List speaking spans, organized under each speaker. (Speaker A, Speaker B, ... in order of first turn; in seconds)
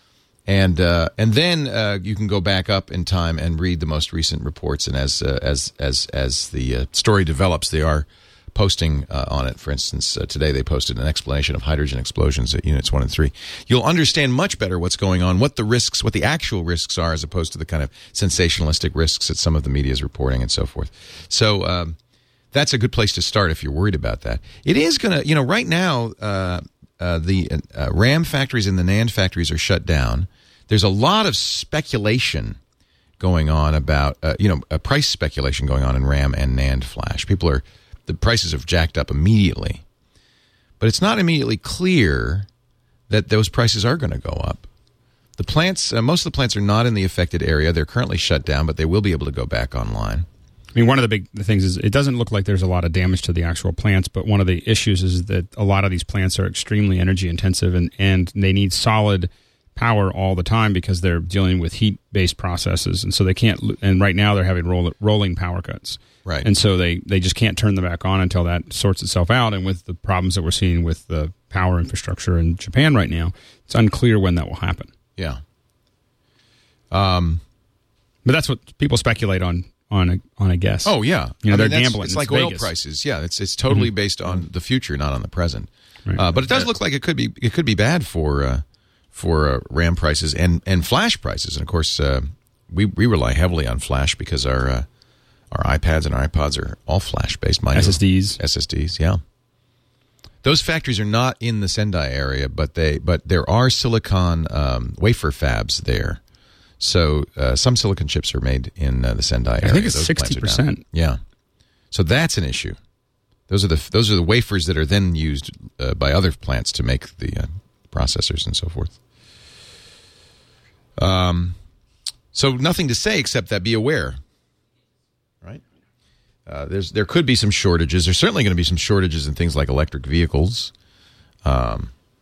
Speaker A: 0.5-22.0, 22.5-32.6, 33.2-39.8, 40.8-42.5, 43.1-44.7, 45.4-50.3, 76.9-77.4, 80.8-94.9, 95.5-99.2, 100.4-106.2, 106.8-111.2, 111.9-112.8, 113.5-119.0, 121.0-121.5, 122.3-124.2, 126.5-130.7, 131.4-131.9
Speaker B: 50.7-74.9, 78.2-82.7, 97.7-98.4, 109.6-110.8